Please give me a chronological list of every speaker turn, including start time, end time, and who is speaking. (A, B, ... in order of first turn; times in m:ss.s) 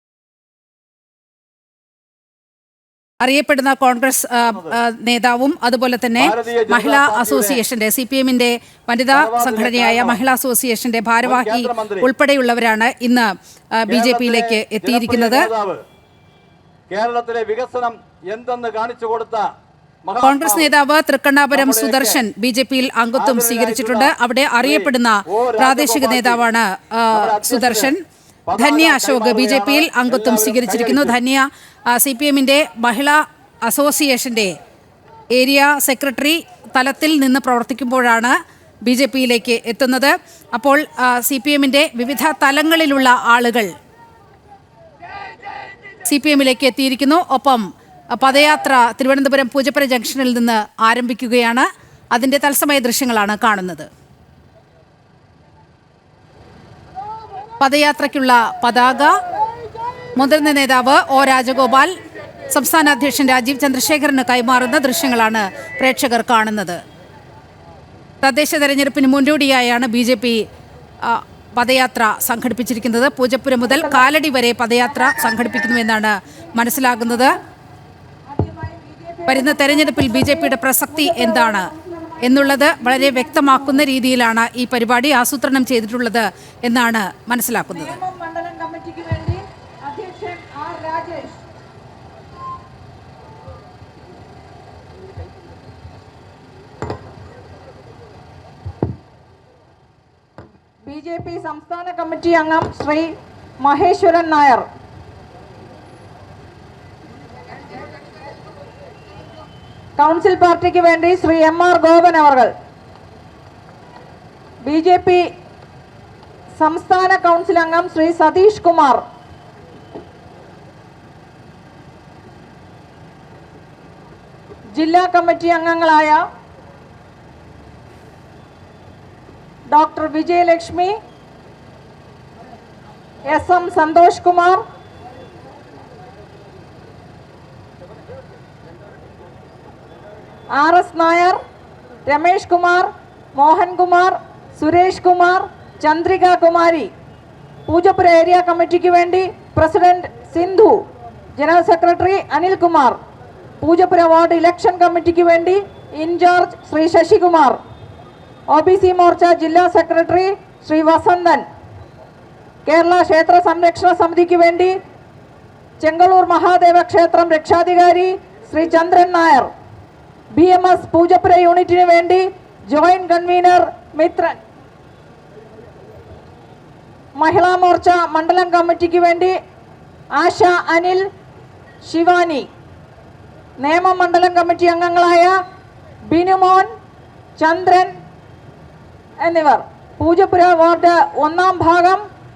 0:03.2-0:15.5 A
0:04.4-0:04.8 B
0:06.2-0:07.6 B
0:09.1-0:10.2 B
0:11.2-0:12.1 B
0:13.9-0:15.8 B
0:16.9-0:19.5 B
0:20.0-0:20.7 B
0:20.2-0:28.0 A
0:21.5-0:22.2 B
0:23.2-0:26.5 B
0:27.1-0:27.9 B
0:28.5-0:31.2 B
0:28.6-0:34.5 A
0:35.3-0:38.4 A
0:38.9-0:43.7 A
0:46.0-0:53.9 A
0:57.6-0:59.1 A
1:00.2-1:01.9 A
1:02.5-1:06.8 A
1:08.2-1:10.4 A
1:11.0-1:17.4 A
1:15.0-1:15.4 C
1:18.3-1:23.8 C
1:19.3-1:28.0 A
1:27.7-1:31.4 C
1:40.9-1:43.1 C
1:43.6-1:44.7 C
1:50.0-1:52.5 C
1:54.7-1:55.3 C
1:56.6-1:59.0 C
2:04.8-2:06.2 C
2:09.7-2:11.0 C
2:13.3-2:14.6 C
2:20.6-2:21.4 C
2:22.1-2:26.9 C
2:27.7-2:30.8 C
2:31.4-2:33.0 C
2:33.6-2:37.6 C
2:38.5-2:41.4 C
2:42.7-2:44.8 C
2:45.8-2:49.5 C
2:50.3-2:54.4 C
2:57.2-2:59.4 C
3:00.2-3:01.1 C
3:01.8-3:02.5 C
3:03.6-3:05.4 C
3:06.1-3:06.7 C
3:07.4-3:07.9 C
3:09.2-3:12.0 C